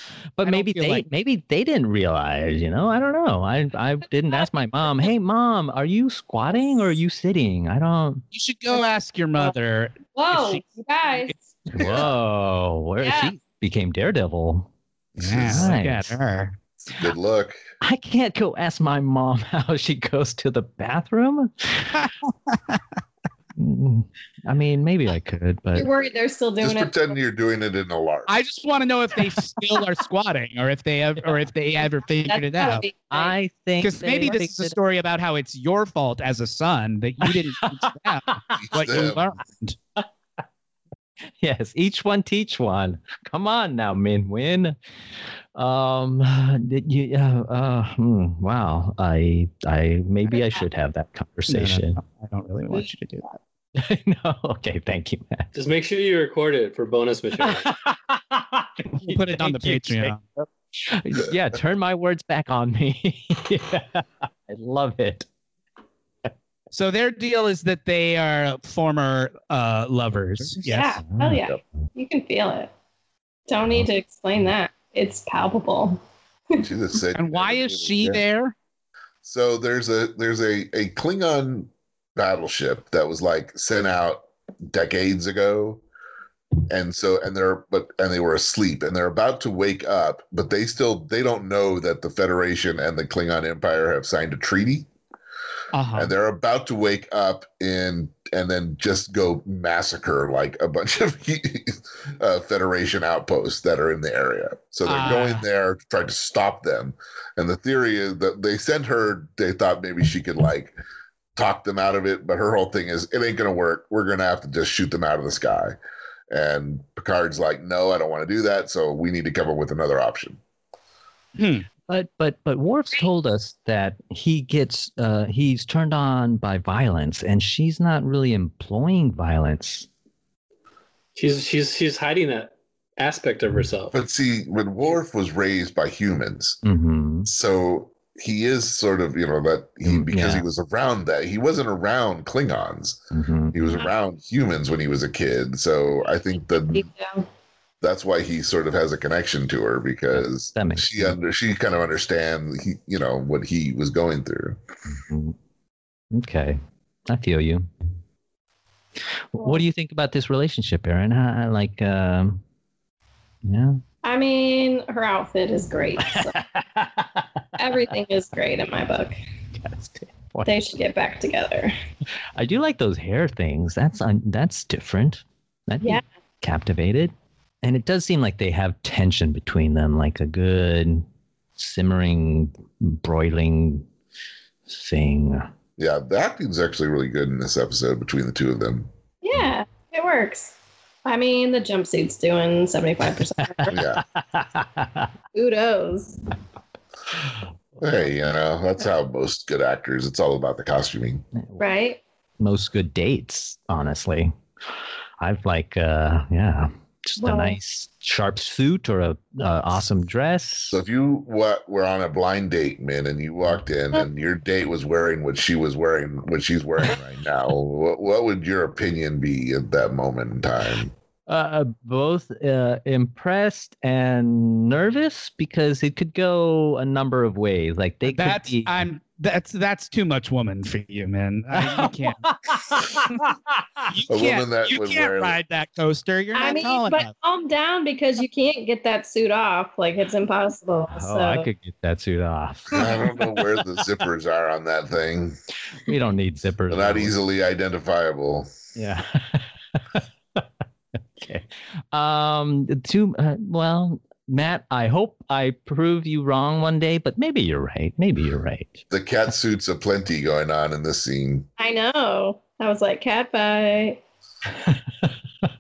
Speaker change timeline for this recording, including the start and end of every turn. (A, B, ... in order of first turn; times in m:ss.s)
0:00.4-0:08.2 A
0:00.4-0:01.1 B
0:08.3-0:11.3 B
0:10.1-0:11.4 C
0:11.7-0:14.7 A
0:11.8-0:12.1 D
0:13.0-0:13.3 C
0:15.2-0:15.8 D
0:15.2-0:16.5 B
0:15.4-0:16.2 A
0:16.9-0:17.6 D
0:17.8-0:22.1 A
0:22.0-0:22.8 B
0:23.6-0:25.9 A
0:25.7-0:27.2 C
0:26.6-0:28.3 D
0:28.3-0:32.8 B
0:32.3-0:33.3 C
0:33.1-0:34.8 A
0:33.8-0:39.8 B
0:37.2-0:38.3 A
0:38.6-0:39.3 D
0:41.4-0:44.8 A
0:45.5-0:52.0 A
0:50.3-0:50.6 C
0:51.5-0:53.3 B
0:53.7-0:55.5 A
0:55.5-0:57.7 E
0:57.4-1:05.3 A
0:59.0-1:00.3 B
1:06.7-1:11.0 B
1:10.4-1:11.6 A
1:10.6-1:12.7 C
1:13.5-1:16.0 C
1:16.6-1:18.2 D
1:17.2-1:18.5 B
1:19.2-1:25.8 D
1:26.7-1:34.9 D
1:35.7-1:36.1 B
1:36.0-1:50.8 D
1:44.8-1:45.4 B
1:51.4-1:55.7 D
1:56.3-2:00.4 D
2:01.4-2:01.6 B
2:01.9-2:09.9 A
2:11.2-2:14.0 E
2:13.9-2:16.6 D
2:16.6-2:17.3 A
2:17.2-2:26.8 D
2:19.8-2:20.4 A
2:23.1-2:23.8 A
2:26.7-2:27.2 C
2:27.8-2:34.6 D
2:30.1-2:31.2 A
2:34.9-2:35.4 A
2:36.1-2:37.7 A
2:39.3-2:42.4 A
2:43.4-2:43.8 A
2:44.0-2:46.3 C
2:46.0-2:47.4 A
2:47.6-2:49.2 C
2:49.6-2:50.6 A
2:50.4-2:51.7 C
2:52.4-3:01.0 A
3:01.6-3:03.9 A
3:04.7-3:05.5 A
3:05.8-3:08.9 D
3:09.2-3:13.8 C
3:13.6-3:15.1 A
3:13.7-3:14.0 D
3:15.3-3:16.2 C
3:17.8-3:21.2 D
3:21.6-3:22.0 C
3:22.4-3:24.3 A
3:25.2-3:30.8 A
3:27.2-3:27.6 C
3:30.7-3:40.9 D
3:41.3-3:48.8 A
3:48.1-3:52.3 B
3:51.5-3:53.9 A
3:53.1-3:53.3 B
3:53.9-3:57.1 B
3:54.1-3:55.4 D
3:56.3-4:01.5 C
4:00.9-4:03.1 A
4:02.7-4:05.4 D
4:05.8-4:07.2 A
4:06.7-4:08.5 D
4:08.8-4:10.4 A
4:11.2-4:18.8 A
4:18.9-4:21.5 D
4:21.6-4:24.0 C